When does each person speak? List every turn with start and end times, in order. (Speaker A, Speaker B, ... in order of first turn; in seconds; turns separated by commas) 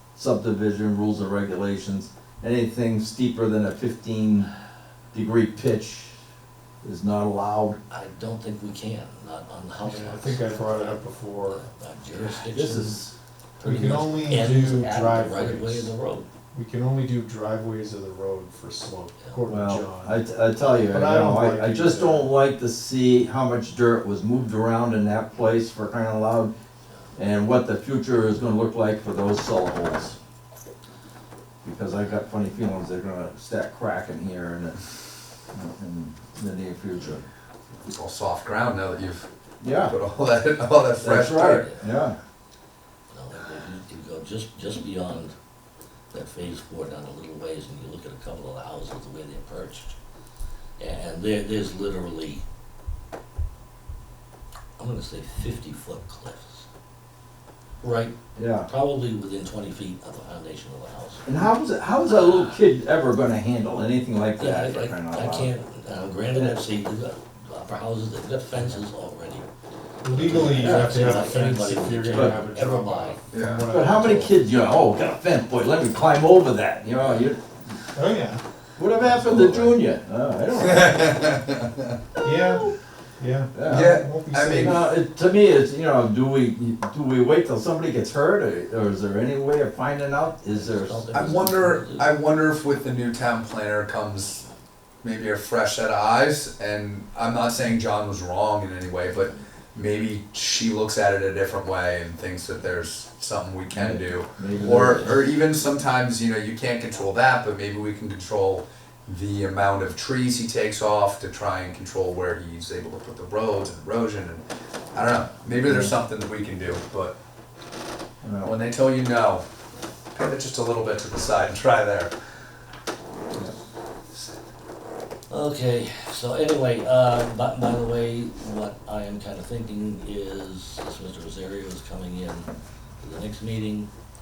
Speaker A: 0.1-4.5, Speaker A: 5.1-6.2, Speaker A: 6.8-7.8, Speaker B: 7.9-13.0, Speaker C: 9.8-11.6, Speaker A: 12.1-13.1, Speaker B: 13.6-16.3, Speaker C: 13.6-15.9, Speaker C: 16.5-20.1, Speaker A: 19.5-26.5, Speaker C: 20.7-22.3, Speaker A: 27.1-30.2, Speaker A: 31.6-34.8, Speaker A: 35.5-37.2, Speaker D: 37.9-41.7, Speaker A: 39.6-39.9, Speaker A: 41.0-42.2, Speaker B: 41.6-41.9, Speaker B: 43.1-45.3, Speaker B: 46.1-50.0, Speaker B: 50.8-52.4, Speaker B: 54.8-56.6, Speaker B: 57.8-58.1, Speaker A: 58.4-58.7, Speaker B: 58.6-61.2, Speaker A: 61.2-65.5, Speaker B: 62.0-62.6, Speaker B: 64.4-69.5, Speaker C: 70.0-74.3, Speaker B: 70.1-73.2, Speaker A: 70.2-71.3, Speaker A: 72.1-72.4, Speaker D: 73.3-73.7, Speaker A: 73.7-77.8, Speaker B: 77.0-77.3, Speaker C: 77.9-78.4, Speaker A: 78.8-81.3, Speaker B: 79.1-79.8, Speaker D: 80.5-81.9, Speaker C: 82.2-84.8, Speaker A: 83.5-84.0, Speaker D: 83.6-84.9, Speaker A: 84.6-91.4, Speaker B: 90.5-92.1, Speaker D: 91.1-94.4, Speaker D: 95.0-117.1, Speaker B: 99.2-99.4, Speaker A: 103.7-105.2, Speaker B: 104.5-105.2, Speaker A: 115.6-115.9, Speaker A: 118.2-118.5, Speaker D: 118.4-119.4, Speaker D: 120.1-122.1, Speaker B: 125.3-132.5, Speaker B: 133.0-133.9